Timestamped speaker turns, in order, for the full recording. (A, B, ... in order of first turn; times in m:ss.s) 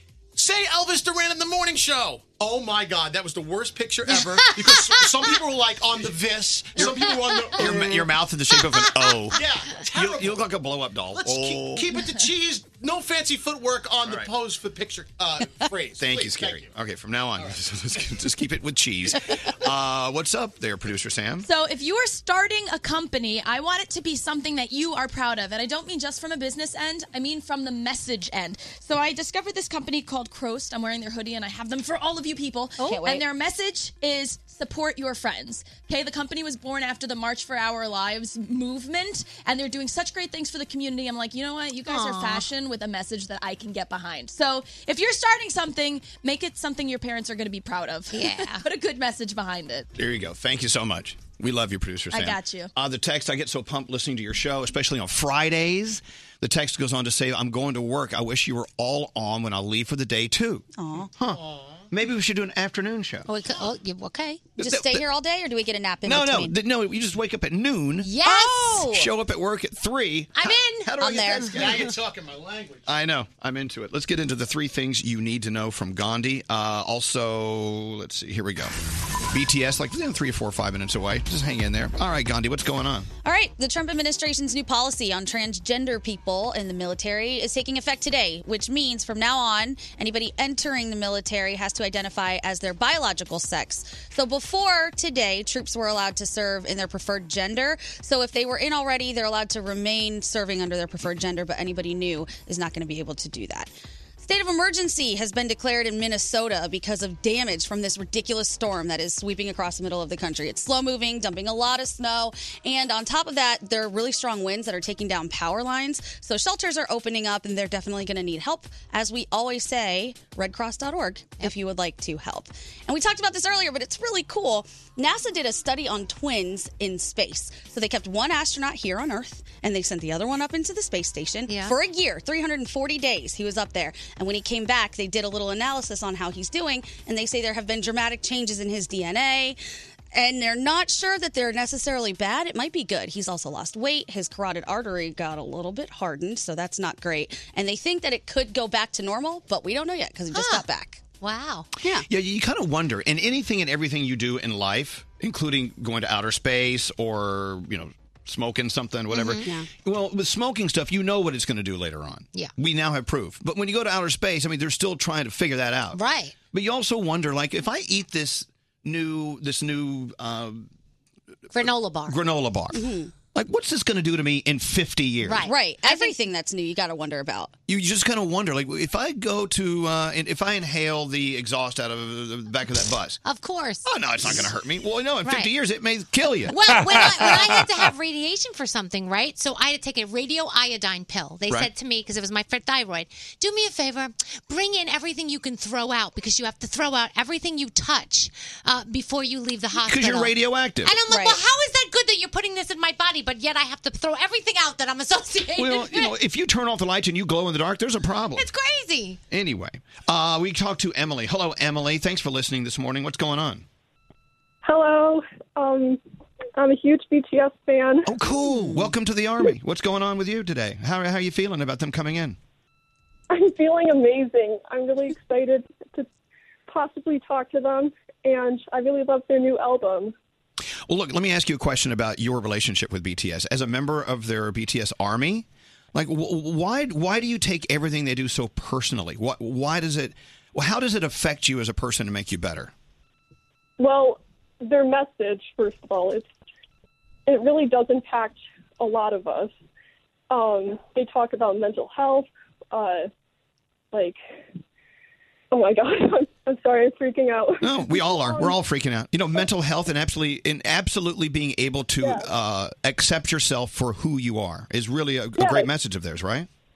0:00.3-0:08.2 A
0:04.1-0:04.4 B
0:06.8-0:07.5 C
0:07.5-0:12.0 B
0:08.7-0:09.1 C
0:09.3-0:10.5 A
0:11.1-0:16.7 A
0:16.0-0:21.4 B
0:21.4-0:49.9 D
0:32.8-0:33.2 E
0:41.9-0:42.5 C
0:48.1-0:48.6 C
0:49.9-1:00.6 B
0:52.1-0:52.7 D
1:00.8-1:01.1 E
1:01.2-1:03.3 B
1:01.3-1:01.9 A
1:03.3-1:04.4 C
1:04.6-1:05.0 B
1:04.6-1:06.6 E
1:06.0-1:08.1 B
1:08.0-1:08.9 C
1:08.2-1:09.1 E
1:08.9-1:11.9 B
1:10.3-1:10.9 C
1:11.0-1:11.5 E
1:11.5-1:12.9 A
1:12.8-1:18.7 B
1:19.3-1:23.1 B
1:23.2-2:19.6 E
2:11.5-2:11.8 C
2:20.1-2:31.0 E
2:30.3-2:30.6 C
2:31.2-2:31.7 C
2:32.0-2:50.7 B
2:39.1-2:39.5 C
2:45.9-2:46.3 C
2:51.5-2:52.2 C
2:52.0-2:55.5 B
2:52.7-2:53.1 E
2:55.2-2:56.2 C
2:55.4-2:57.5 E
2:57.7-3:03.2 B
3:03.2-3:03.8 C
3:03.8-3:06.6 B
3:05.2-3:05.5 C
3:06.5-3:26.1 C
3:19.8-3:21.0 B
3:21.1-3:21.4 E
3:25.5-3:28.5 B
3:28.3-3:29.2 C
3:29.3-3:33.6 B
3:34.6-3:36.0 F
3:36.6-3:38.1 F
3:38.0-3:42.4 B
3:38.4-3:38.9 E
3:43.3-3:46.1 F
3:46.7-3:50.1 F
3:50.9-4:02.7 B
4:03.8-4:06.3 F
4:07.3-4:09.5 F
4:10.3-4:13.1 F
4:13.9-4:14.2 F
4:15.5-4:18.6 F
4:17.6-4:26.5 B
4:22.0-4:22.2 F
4:25.4-4:25.7 F